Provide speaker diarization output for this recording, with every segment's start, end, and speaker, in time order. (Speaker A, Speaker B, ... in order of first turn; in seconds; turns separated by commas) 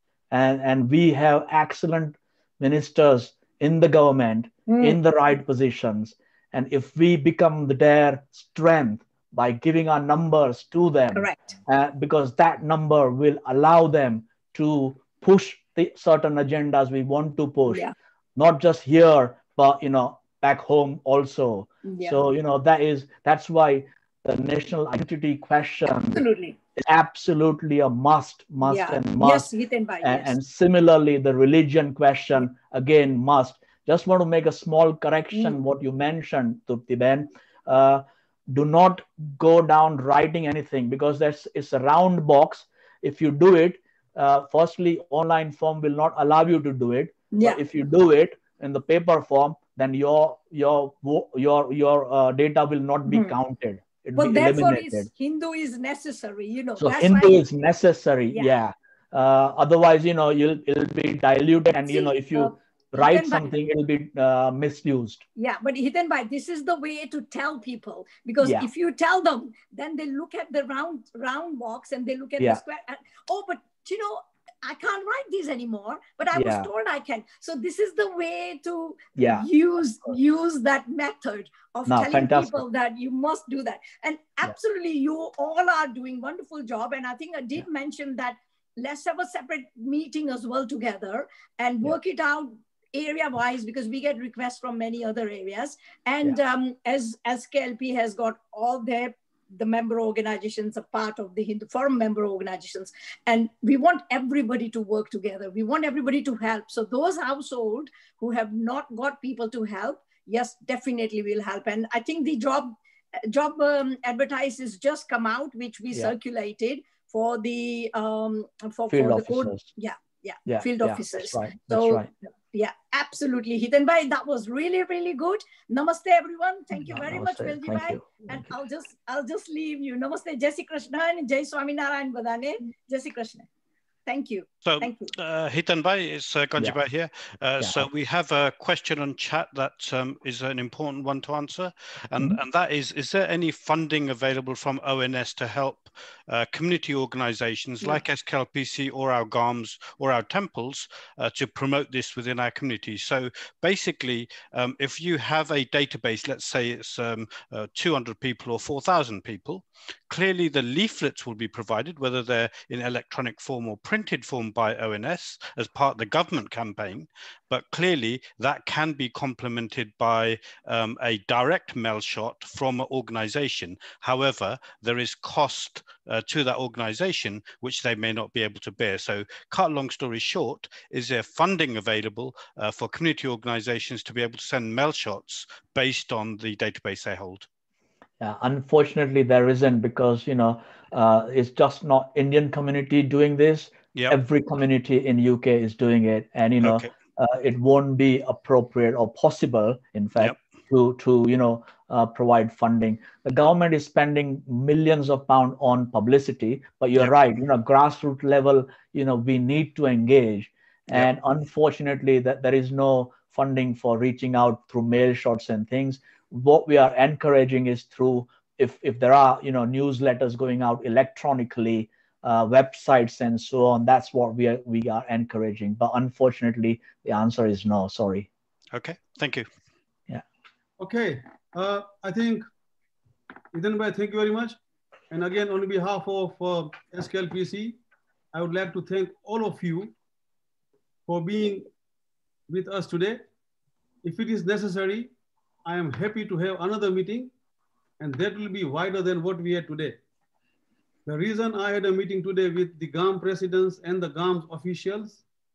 Speaker A: 0.3-26.2, Speaker B: 4.7-5.0, Speaker B: 17.7-17.9, Speaker B: 21.9-22.2, Speaker B: 26.1-26.6, Speaker A: 26.8-29.5, Speaker B: 28.6-30.3, Speaker A: 30.0-55.1, Speaker B: 47.3-47.6, Speaker B: 53.1-53.3, Speaker B: 54.2-57.4, Speaker A: 56.8-65.2, Speaker B: 61.9-63.5, Speaker B: 65.3-133.5, Speaker A: 68.4-68.7, Speaker A: 76.3-76.7, Speaker A: 79.2-79.5, Speaker A: 81.9-82.6, Speaker A: 118.9-119.7, Speaker A: 120.5-122.1, Speaker A: 126.7-128.5, Speaker B: 134.1-135.1, Speaker C: 134.6-187.5, Speaker A: 137.6-137.9, Speaker A: 188.2-228.3, Speaker C: 196.6-196.9, Speaker C: 228.7-229.5, Speaker D: 230.8-232.4, Speaker D: 233.5-234.6, Speaker D: 235.1-237.8, Speaker D: 238.3-239.9, Speaker D: 241.1-241.7, Speaker D: 242.5-243.2, Speaker D: 244.0-245.1, Speaker D: 245.7-247.3, Speaker D: 248.0-250.0, Speaker D: 251.1-255.2